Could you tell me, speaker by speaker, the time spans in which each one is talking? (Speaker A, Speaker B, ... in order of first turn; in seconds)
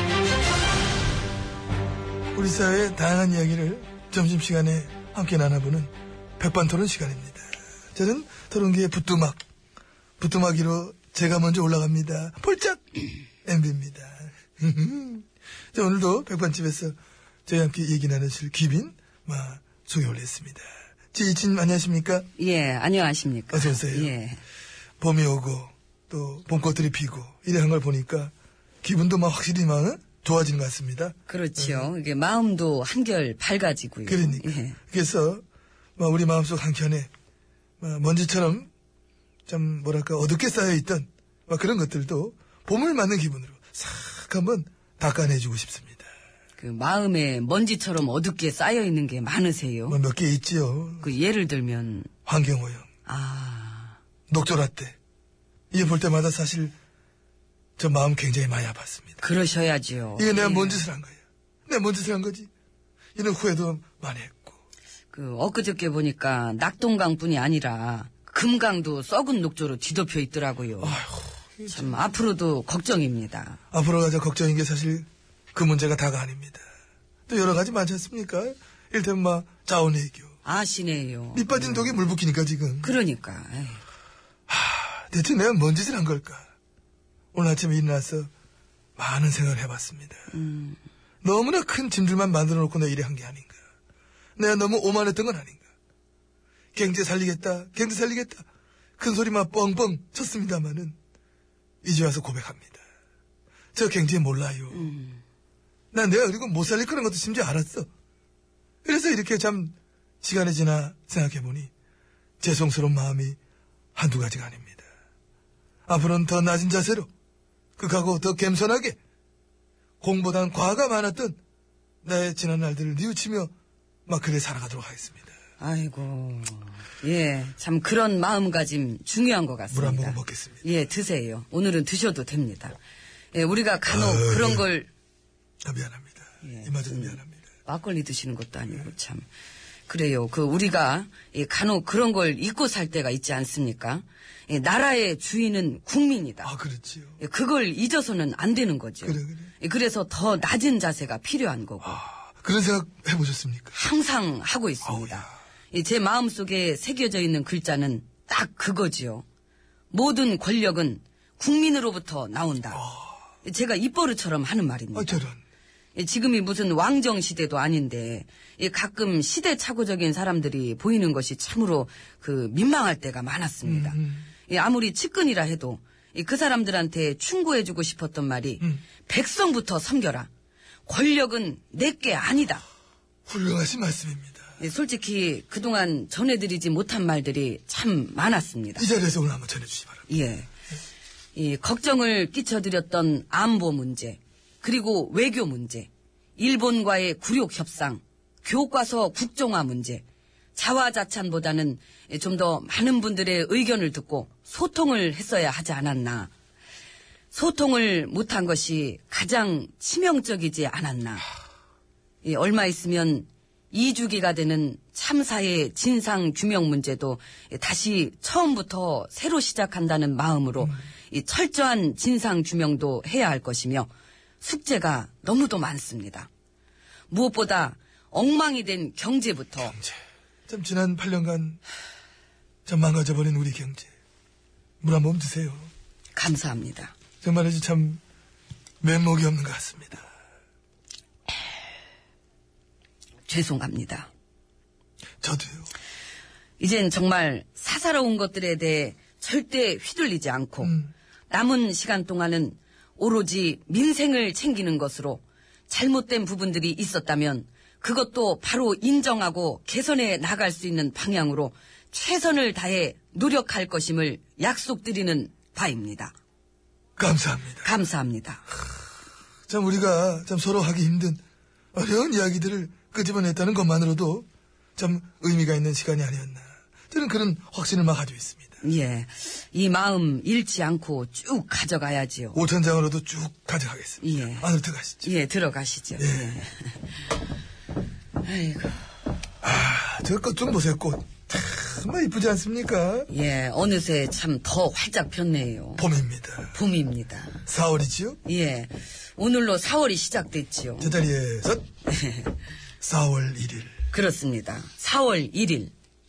Speaker A: 2.3-9.4, 10.2-12.8, 13.4-16.9, 17.5-22.3, 23.5-24.1, 25.0-28.3, 28.8-31.9, 34.1-35.4, 36.0-37.1, 37.8-38.7, 39.5-46.1, 49.9-51.1, 52.2-52.9, 54.3-55.0, 55.7-56.7, 57.8-59.2, 60.1-62.5, 63.1-64.6, 70.8-72.2, 73.7-76.6, 77.3-80.3, 81.3-83.0, 84.5-86.5, 87.3-88.3, 89.0-90.3, 91.2-93.5, 94.4-95.6, 96.7-98.4, 99.0-101.0, 101.8-102.8, 103.7-104.9, 105.9-107.9, 108.8-111.7, 112.4-113.4, 114.0-114.8, 115.9-117.1, 117.8-119.0, 120.0-121.4, 122.0-123.5, 124.1-125.3, 129.7-130.7, 133.9-134.7, 135.6-137.4, 146.4-147.2, 149.0-149.5, 151.8-153.7, 154.8-155.3, 162.7-163.2, 164.9-165.4, 173.6-174.3, 183.3-184.5, 188.8-190.0, 229.6-231.6, 232.7-233.9, 234.8-235.7, 237.2-238.0, 238.8-240.1, 245.2-245.7, 250.6-250.9, 267.0-267.7, 269.5-271.2, 271.7-274.2, 274.8-278.5, 282.3-285.1, 286.0-286.4, 289.4-293.1, 295.8-296.5, 297.5-298.2, 300.8-301.6, 302.8-303.8
Speaker B: 22.4-24.4, 31.3-34.8, 46.6-50.0, 51.0-52.1, 53.0-54.0, 59.2-60.8, 65.1-71.0, 71.7-73.6, 80.4-82.0, 82.8-83.8, 90.3-90.8, 104.7-105.2, 125.6-132.8, 133.3-134.9, 136.4-139.2, 139.9-146.5, 147.2-151.9, 153.7-159.2, 159.9-162.8, 163.4-165.2, 165.9-180.3, 180.8-182.6, 184.6-188.9, 190.1-190.5, 191.3-200.0, 200.5-206.3, 207.3-211.2, 212.2-223.9, 224.4-226.3, 227.1-229.7, 236.1-236.9, 243.3-244.1, 246.6-250.8, 251.3-266.1, 267.6-268.4, 278.6-282.4, 284.0-284.5, 285.0-286.8, 288.2-288.9, 293.1-295.8, 296.5-297.4, 298.2-301.0, 301.9-302.3, 303.9-305.7